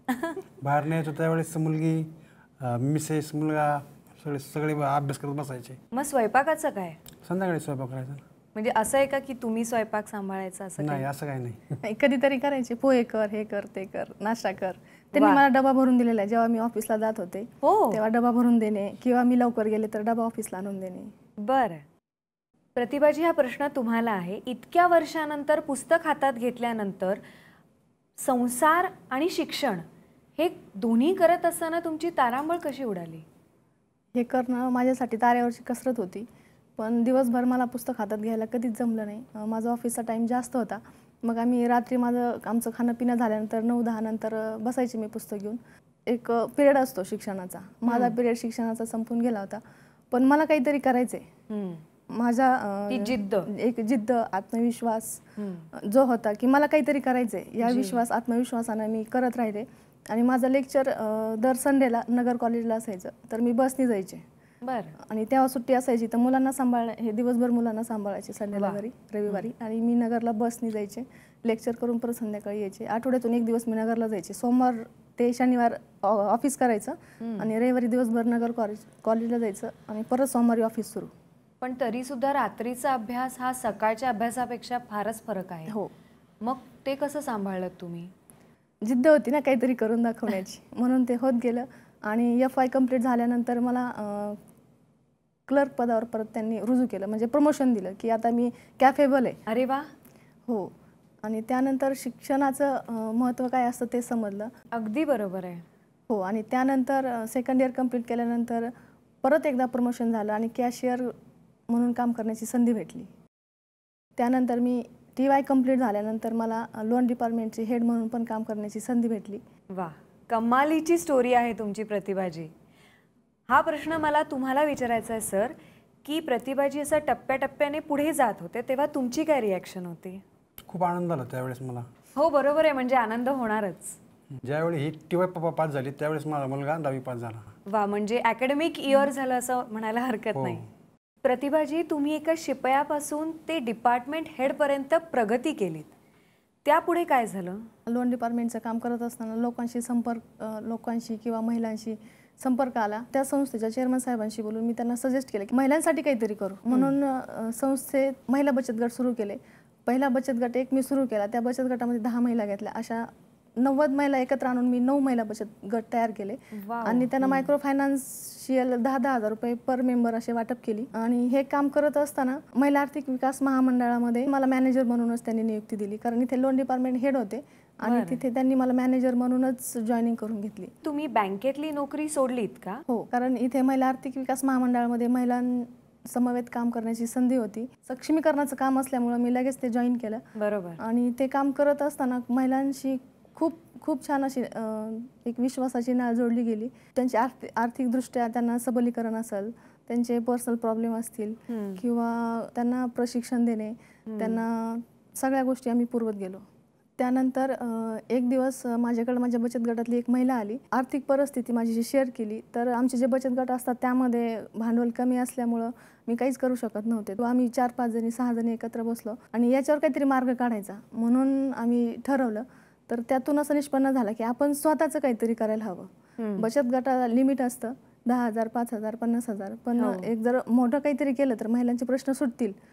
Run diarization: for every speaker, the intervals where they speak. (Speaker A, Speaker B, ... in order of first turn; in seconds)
Speaker A: 0.1-0.4, 5.9-7.0, 8.5-11.1, 15.2-15.4, 17.6-18.0, 21.4-21.8, 22.8-27.2, 28.2-29.8, 30.4-33.2, 47.9-48.1, 51.5-51.8, 52.9-53.5, 55.4-55.7, 57.6-58.0, 64.6-65.0, 68.5-69.5, 77.2-77.5, 81.6-85.8, 86.4-88.1, 99.5-99.9, 104.7-105.6, 119.7-122.5, 123.5-130.2, 132.2-134.0, 137.7-140.7, 141.2-145.9, 146.7-147.7, 166.5-167.5, 177.8-178.2, 180.8-182.8, 190.4-190.8, 201.5-201.8, 204.1-204.4, 226.2-226.5, 229.8-230.1
Speaker B: 0.6-5.8, 7.2-8.2, 10.8-11.8, 130.6-131.9, 134.4-137.5, 140.3-140.6
Speaker C: 11.8-21.1, 34.1-36.3, 36.8-49.6, 50.1-51.2, 52.1-55.2, 55.7-64.2, 65.0-81.1, 88.8-94.4, 95.5-99.4, 101.2-104.5, 106.1-108.7, 109.2-111.1, 111.7-113.1, 114.2-119.4, 147.9-163.1, 163.6-180.7, 182.9-190.2, 190.8-206.4, 207.0-232.6